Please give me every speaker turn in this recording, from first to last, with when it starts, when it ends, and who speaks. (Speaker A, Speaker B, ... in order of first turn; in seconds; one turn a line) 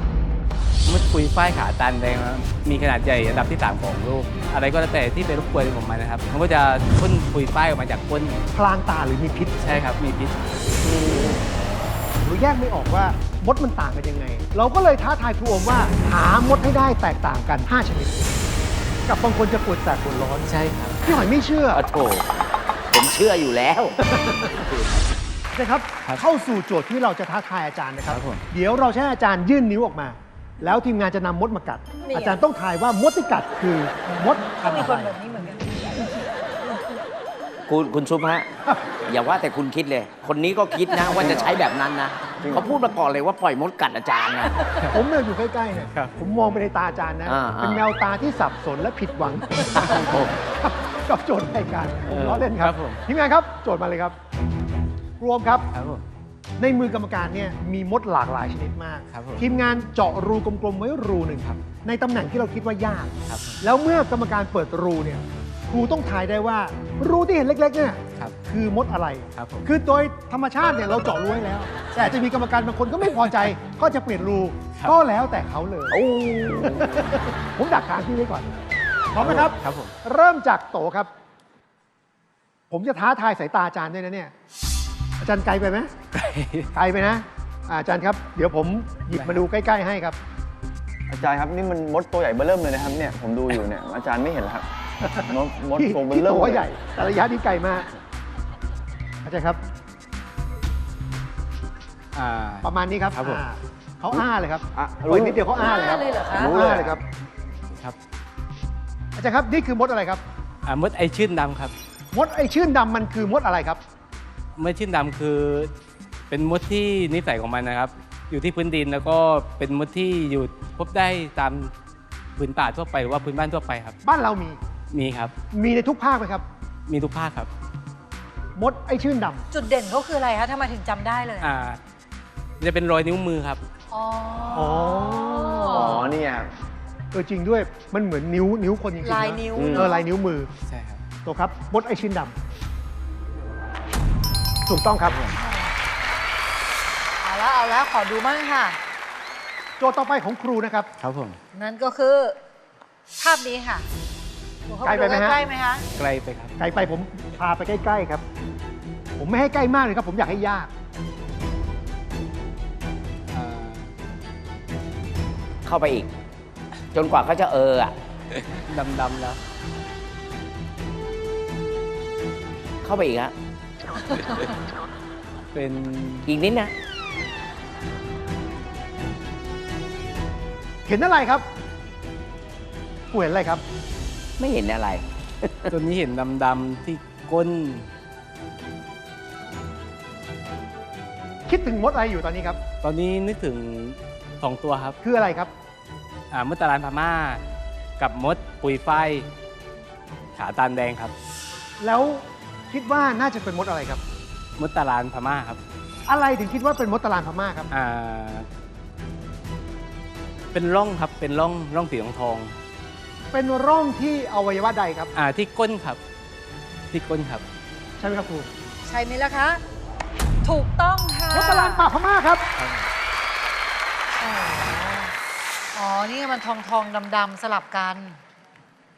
Speaker A: 0.9-8.4
Speaker B: 8.5-9.6
Speaker A: 9.6-10.5
Speaker C: 10.8-11.4
Speaker B: 12.2-18.3
Speaker B: 19.1-21.8
Speaker A: 20.5-21.0
Speaker C: 21.7-24.0
Speaker B: 24.0-24.7
Speaker B: 25.5-35.0
Speaker A: 28.1-28.4
Speaker D: 32.1-32.4
Speaker D: 34.6-36.1
Speaker C: 37.7-38.5
Speaker C: 39.1-44.6
Speaker E: 41.0-41.6
Speaker E: 42.4-42.7
Speaker B: 44.9-54.2
Speaker A: 45.8-46.2
Speaker C: 47.3-47.9
Speaker C: 49.7-50.3
Speaker A: 52.1-53.0
Speaker B: 55.2-55.7
Speaker A: 55.7-56.0
Speaker B: 56.6-76.0
Speaker A: 59.1-59.5
Speaker A: 63.3-63.6
Speaker A: 69.3-69.7
Speaker A: 71.9-72.2
Speaker C: 75.9-77.1
Speaker B: 76.6-78.5
Speaker B: 79.1-81.1
Speaker A: 79.2-80.0
Speaker B: 82.7-84.3
Speaker B: 85.2-85.9
Speaker A: 86.1-86.7
Speaker B: 86.7-90.2
Speaker A: 89.2-89.4
Speaker E: 91.1-94.7
Speaker B: 95.0-97.9
Speaker E: 95.2-96.7
Speaker B: 99.2-99.6
Speaker A: 102.2-103.4
Speaker B: 102.6-107.0
Speaker E: 104.8-105.6
Speaker D: 105.6-106.6
Speaker E: 106.3-107.0
Speaker B: 109.2-110.2
Speaker A: 110.7-111.7
Speaker B: 112.1-113.8
Speaker A: 114.6-115.7
Speaker A: 116.3-121.7
Speaker A: 122.4-124.0
Speaker B: 124.0-124.6
Speaker A: 124.9-125.3
Speaker B: 125.5-126.5
Speaker A: 126.9-127.5
Speaker B: 128.6-129.4
Speaker D: 129.5-131.5
Speaker A: 131.4-131.8
Speaker A: 132.6-133.6
Speaker D: 133.9-136.1
Speaker B: 134.5-136.2
Speaker E: 135.7-136.5
Speaker B: 137.1-140.5
Speaker D: 139.0-140.1
Speaker A: 140.7-141.0
Speaker B: 141.2-142.3
Speaker B: 144.7-145.2
Speaker A: 145.1-145.3
Speaker D: 145.4-145.7
Speaker D: 147.2-148.8
Speaker B: 149.8-150.9
Speaker A: 151.0-151.4
Speaker D: 151.5-152.4
Speaker D: 153.2-153.9
Speaker D: 154.7-155.9
Speaker B: 154.8-155.4
Speaker A: 155.9-156.6
Speaker B: 156.6-158.2
Speaker B: 159.2-160.7
Speaker A: 163.3-163.9
Speaker C: 165.7-166.1
Speaker C: 166.9-167.9
Speaker A: 168.3-169.4
Speaker C: 172.8-173.3
Speaker A: 175.5-176.3
Speaker C: 176.3-176.7
Speaker B: 180.9-181.5
Speaker B: 183.1-183.6
Speaker C: 184.4-185.7
Speaker A: 185.7-187.9
Speaker B: 191.5-192.6
Speaker A: 192.8-195.0
Speaker B: 195.0-195.5
Speaker A: 196.3-197.4
Speaker A: 198.0-199.3
Speaker A: 200.4-201.1
Speaker B: 201.8-204.0
Speaker A: 204.6-205.6
Speaker B: 206.1-207.7
Speaker A: 207.7-208.5
Speaker A: 210.5-212.6
Speaker B: 213.3-215.1
Speaker A: 215.2-216.0
Speaker A: 216.9-217.4
Speaker B: 218.0-218.5
Speaker D: 218.9-219.6
Speaker D: 220.4-221.9
Speaker B: 221.3-222.4
Speaker A: 222.6-222.9
Speaker D: 224.2-225.1
Speaker D: 225.8-228.2